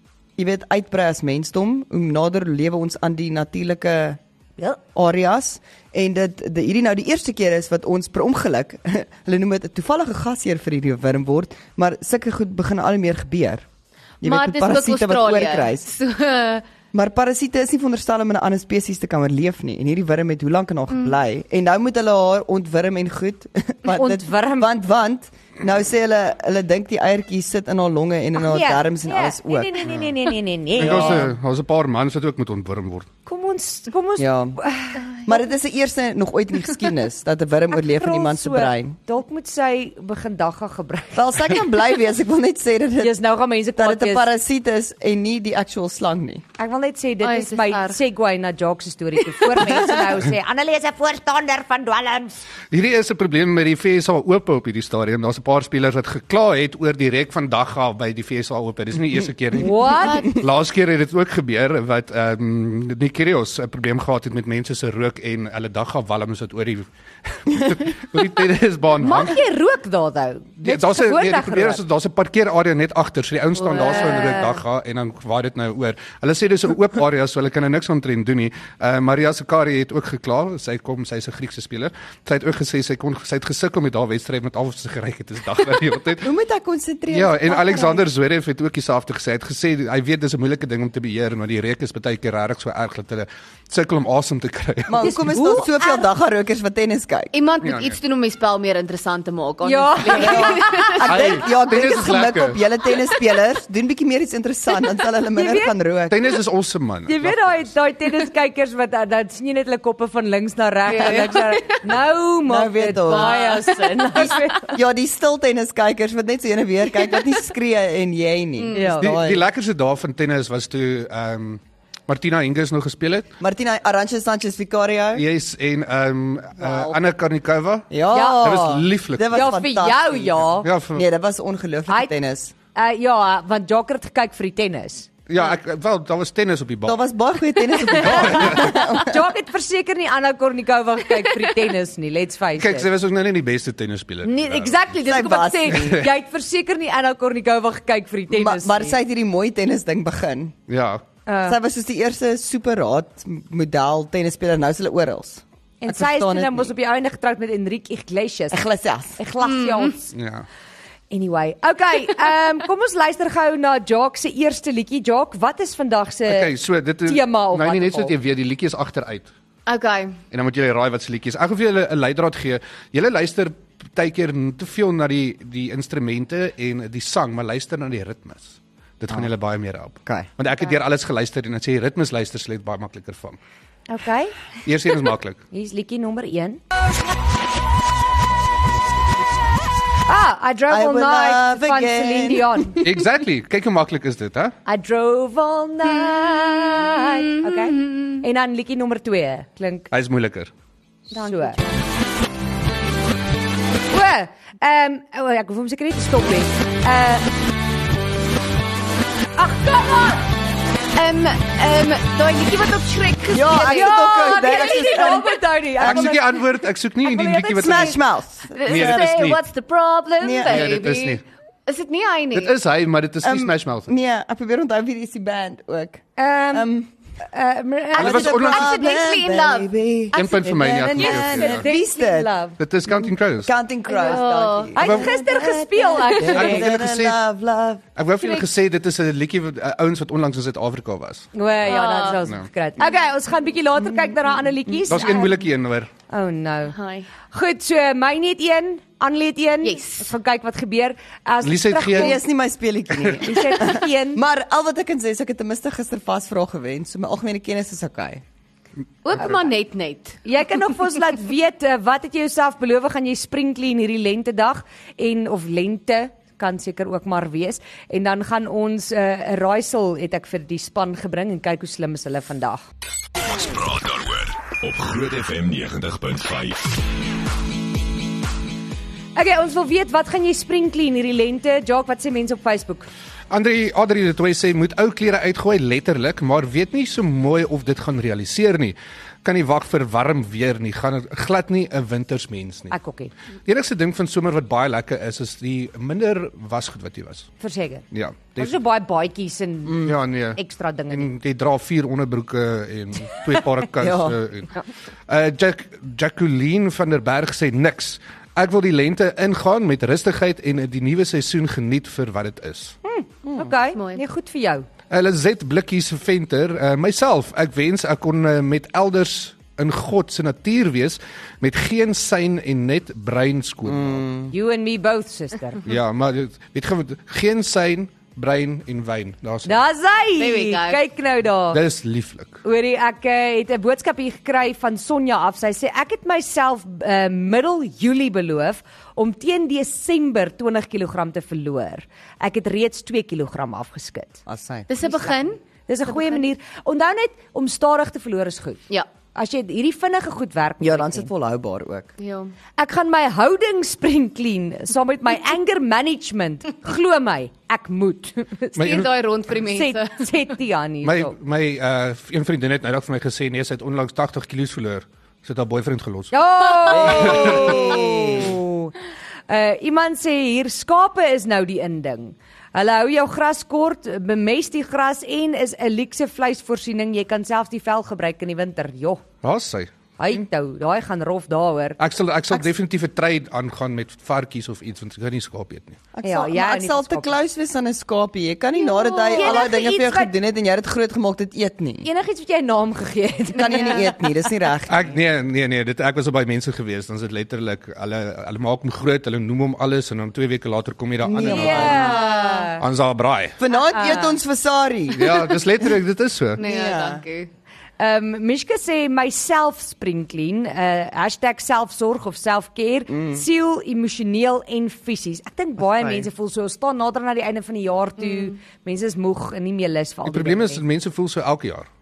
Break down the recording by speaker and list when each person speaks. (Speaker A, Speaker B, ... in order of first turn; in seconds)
Speaker A: 0.4-4.2, 4.9-13.7, 14.2-15.9, 16.9-30.0, 30.8-31.3, 34.2-34.6, 35.2-39.0, 41.1-46.4, 86.2-88.1, 94.9-97.3, 100.1-106.4, 112.5-113.5, 114.2-119.5, 123.4-125.2, 127.9-132.5, 136.8-139.3, 145.0-146.1, 148.3-150.6, 151.4-156.7, 158.5-159.2, 190.7-193.0, 213.3-216.2, 217.6-219.0, 220.2-220.7, 223.2-226.9, 227.9-232.4, 232.9-237.9, 251.9-258.2, 303.8-304.2, 313.2-313.5, 323.6-324.3, 344.3-344.7, 350.6-351.9, 366.7-368.4, 385.9-391.9, 393.3-394.9, 401.0-402.5, 403.4-405.4, 406.4-407.0, 412.9-413.2, 415.8-416.1
Speaker B: 14.2-16.6, 47.2-48.0, 60.0-60.4, 73.7-74.4, 97.3-101.3, 110.9-111.8, 113.0-114.3, 118.6-119.0, 126.6-127.0, 159.4-159.9, 169.7-170.2, 196.1-198.2, 201.1-201.7, 211.0-215.2, 218.5-222.6, 228.0-230.4, 233.9-234.8, 235.8-236.5, 238.2-238.5, 241.7-242.2, 246.7-247.1, 249.6-250.1, 259.0-260.2, 313.7-314.0, 330.2-330.8, 344.7-345.4, 352.0-352.3, 358.6-360.1, 366.8-367.6, 388.6-389.4, 393.5-393.8, 401.8-402.5, 406.4-407.3, 418.0-418.3
Speaker C: 23.9-24.7, 28.4-31.3, 33.3-35.2, 38.0-41.6, 43.0-44.3, 46.6-52.4, 59.6-60.3, 69.0-71.8, 73.7-74.6, 95.0-96.0, 99.6-101.0, 105.3-105.7, 107.1-114.8, 118.7-119.1, 128.1-128.5, 129.3-130.7, 132.8-135.1, 137.7-142.9, 144.2-149.0, 151.3-151.6, 155.8-158.6, 159.2-160.2, 161.1-166.5, 167.1-168.2, 183.9-184.4, 185.5-186.6, 190.1-192.8, 194.7-199.9, 201.1-201.6, 203.9-207.3, 209.4-210.3, 213.6-218.0, 226.2-226.7, 227.3-228.3, 230.3-232.6, 234.8-236.7, 241.3-245.4, 246.1-246.8, 247.3-252.2, 253.2-254.2, 260.2-272.6, 279.2-282.9, 292.7-293.1, 297.4-301.1, 312.8-314.7, 324.3-325.6, 329.4-331.6, 332.4-344.2, 345.7-348.6, 349.1-351.1, 352.6-361.1, 366.1-368.8, 369.3-379.0, 380.0-381.8, 386.0-387.1, 389.1-390.1, 391.8-394.1, 401.2-402.6, 403.7-404.2, 407.8-420.6
Speaker D: 30.8-33.1, 52.7-69.4, 70.6-86.3, 87.1-95.5, 97.6-98.0, 101.0-102.6, 106.1-107.7, 119.0-123.3, 125.2-129.4, 130.6-131.1, 135.3-137.0, 138.1-138.7, 142.6-144.9, 145.7-146.1, 150.7-151.0, 160.1-160.5, 166.3-169.3, 170.3-183.4, 184.7-185.4, 192.8-194.6, 199.9-200.5, 215.8-218.0, 218.7-219.4, 220.5-221.2, 222.3-223.9, 228.0-228.7, 230.1-231.7, 232.6-233.5, 234.8-235.1, 236.3-237.2, 238.0-241.3, 244.9-245.9, 251.4-252.2, 283.3-292.8, 293.4-297.3, 297.9-298.6, 299.7-300.4, 300.9-312.8, 314.9-324.1, 325.6-329.6, 331.5-332.4, 358.6-358.9, 360.8-366.1, 366.9-367.6, 379.2-379.7, 381.8-385.8, 394.7-402.0, 402.6-403.4, 404.9-406.4, 420.1-421.7
Speaker E: 273.3-276.7